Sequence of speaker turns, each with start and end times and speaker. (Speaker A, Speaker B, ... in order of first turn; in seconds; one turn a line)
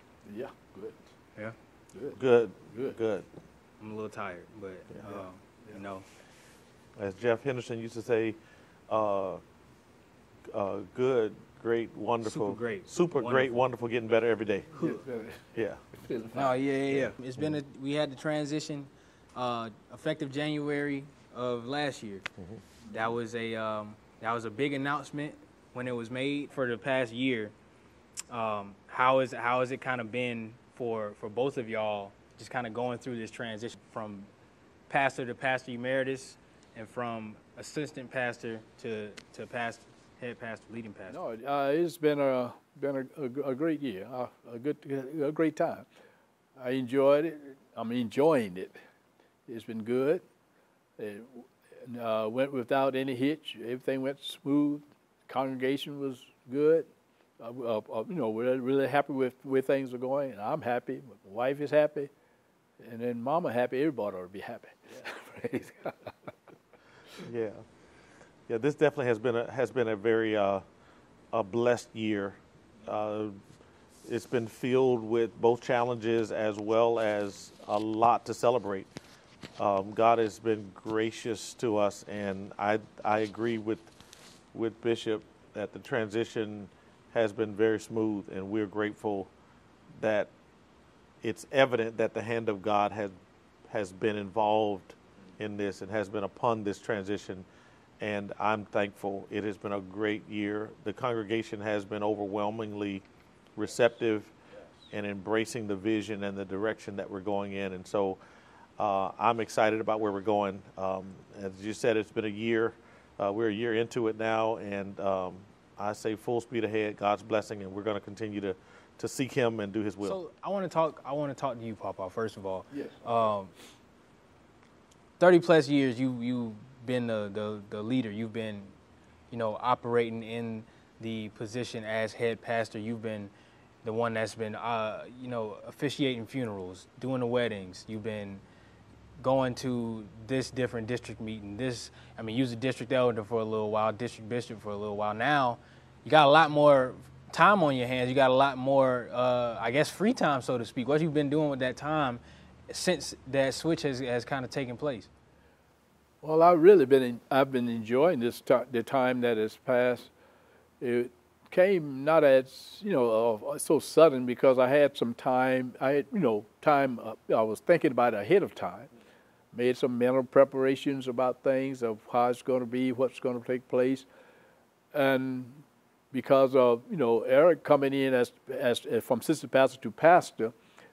Speaker A: 0.2-1.0
Speaker A: 1.9-2.2
Speaker B: 2.1-3.3
Speaker A: 2.7-3.0
Speaker C: 3.8-6.1
Speaker B: 4.9-5.2
Speaker B: 7.0-8.4
Speaker B: 8.9-9.4
Speaker B: 10.5-15.0
Speaker C: 12.2-13.6
Speaker A: 14.7-15.4
Speaker B: 15.5-15.8
Speaker A: 16.0-16.5
Speaker C: 16.3-22.3
Speaker B: 16.9-17.5
Speaker C: 22.9-27.5
Speaker C: 28.3-34.3
Speaker C: 34.9-41.2
Speaker A: 41.1-45.9
Speaker A: 46.6-48.7
Speaker A: 49.5-50.2
Speaker A: 51.0-56.9
Speaker A: 57.4-62.1
Speaker A: 62.8-66.3
Speaker B: 67.2-67.6
Speaker B: 68.5-70.6
Speaker B: 71.3-73.3
Speaker B: 74.0-78.9
Speaker B: 79.6-83.9
Speaker B: 84.5-89.3
Speaker B: 90.0-90.3
Speaker B: 91.2-93.1
Speaker B: 93.7-97.5
Speaker B: 98.0-103.0
Speaker B: 103.5-104.3
Speaker B: 104.9-108.2
Speaker B: 108.8-120.2
Speaker C: 120.0-123.5
Speaker C: 125.2-128.7
Speaker C: 129.3-133.3
Speaker C: 133.8-138.4
Speaker C: 139.2-155.1
Speaker A: 156.2-160.1
Speaker A: 160.8-168.9
Speaker A: 169.5-174.0
Speaker A: 174.9-180.5